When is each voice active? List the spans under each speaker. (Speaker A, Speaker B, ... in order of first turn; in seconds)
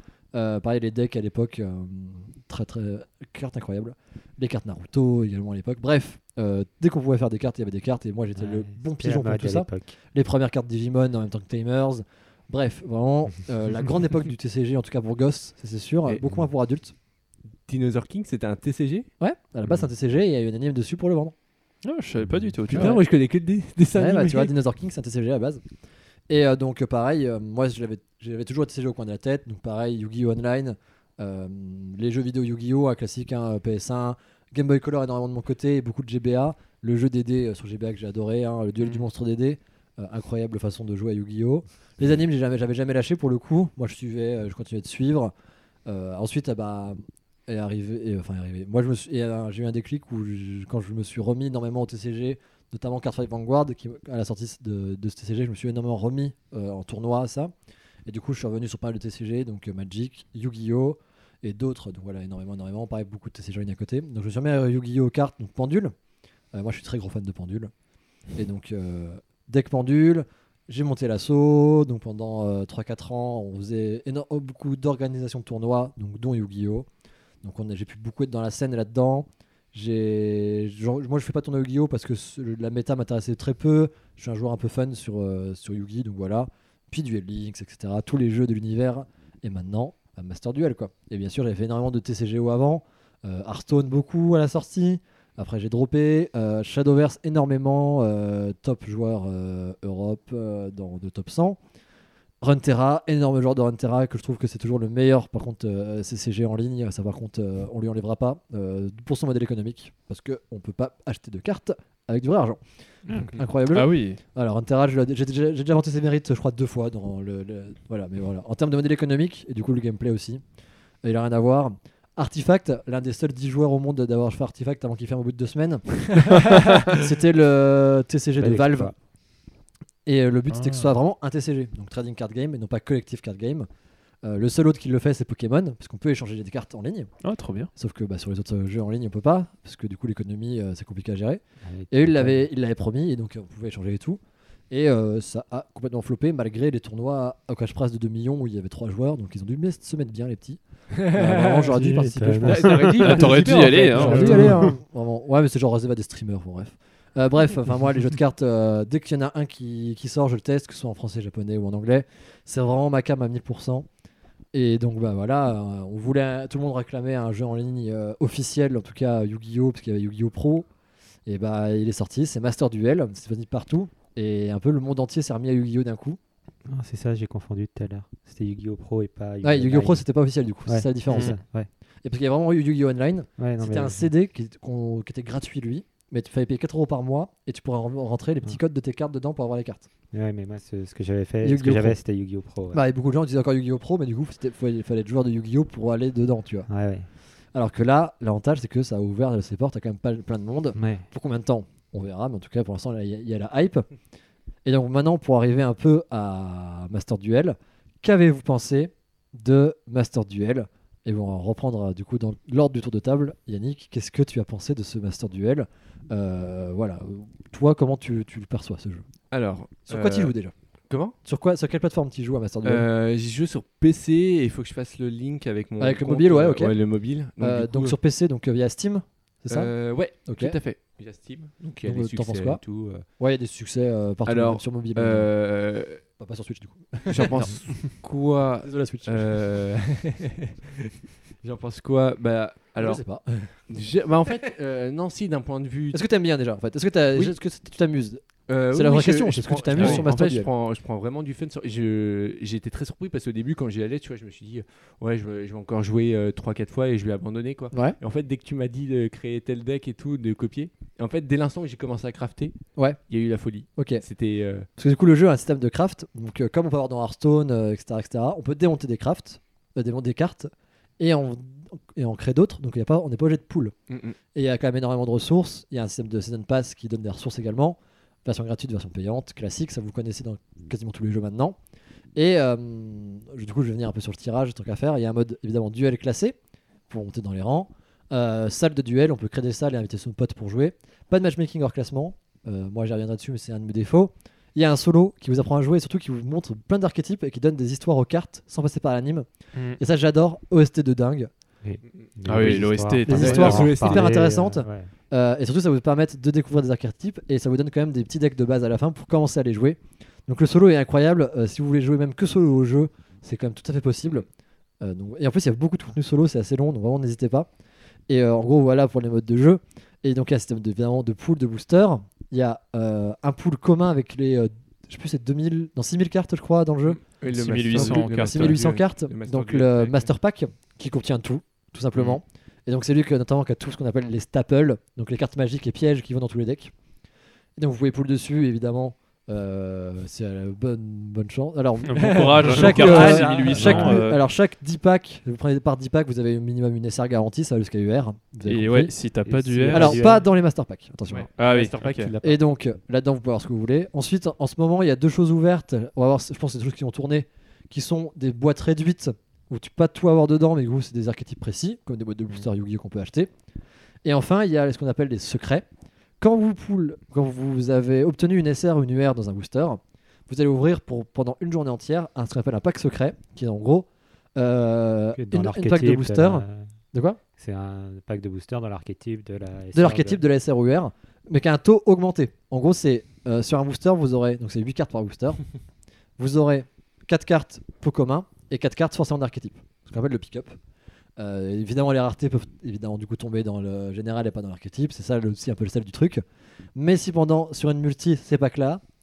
Speaker A: 0.3-16.9, 19.2-21.3, 22.7-23.0, 23.9-25.6, 26.3-45.3, 45.9-57.5, 58.0-65.9, 66.5-67.7, 68.3-76.8, 77.4-101.6, 102.4-112.6, 113.1-120.4, 121.0-128.9, 130.1-133.7, 134.2-137.1, 137.8-144.2, 144.7-163.9, 164.5-170.7, 171.2-176.2, 179.4-181.3, 182.0-189.9, 191.4-192.0, 192.7-196.7, 197.5-203.8, 204.6-219.0, 219.9-220.5, 221.2-222.8, 225.8-226.8, 227.4-229.7, 230.2-230.6, 231.8-232.6, 233.2-235.3, 236.2-237.5, 238.6-239.4, 242.8-243.6, 245.9-250.5, 257.7-258.0, 263.8-264.0, 264.8-273.7, 274.3-281.6, 282.1-286.4, 286.9-299.2, 299.8-301.3, 303.1-314.2, 314.8-317.5, 318.1-327.0, 327.7-336.7, 337.6-348.9, 349.7-351.3, 352.2-363.3, 364.0-365.6, 366.2-377.2, 379.7-385.4, 386.2-390.6, 391.2-396.2, 396.8-398.8
Speaker B: 8.3-9.9, 22.2-22.6, 128.4-128.9, 141.6-142.4, 151.6-154.8, 176.7-180.0, 180.7-181.7, 183.4-184.1, 190.1-192.8, 196.7-197.1, 200.8-201.1, 301.6-304.9, 342.6-344.1, 349.2-350.3, 375.1-376.7, 377.4-380.2
Speaker C: 17.6-19.1, 22.7-24.5, 150.9-151.7, 152.4-154.5, 219.3-220.3, 220.9-221.1, 222.6-227.9, 229.5-233.1, 234.2-236.0, 237.1-243.0, 243.7-246.0, 248.5-262.6, 263.1-264.7, 273.9-274.2, 301.9-304.2, 326.9-330.1, 342.0-343.6, 351.1-352.4
Speaker D: 21.8-23.0, 113.7-114.2, 130.5-130.9, 137.2-137.7, 153.0-154.6, 249.8-250.0, 299.5-299.8, 302.2-303.7, 327.3-328.6, 341.9-344.2, 348.4-350.0, 351.4-352.1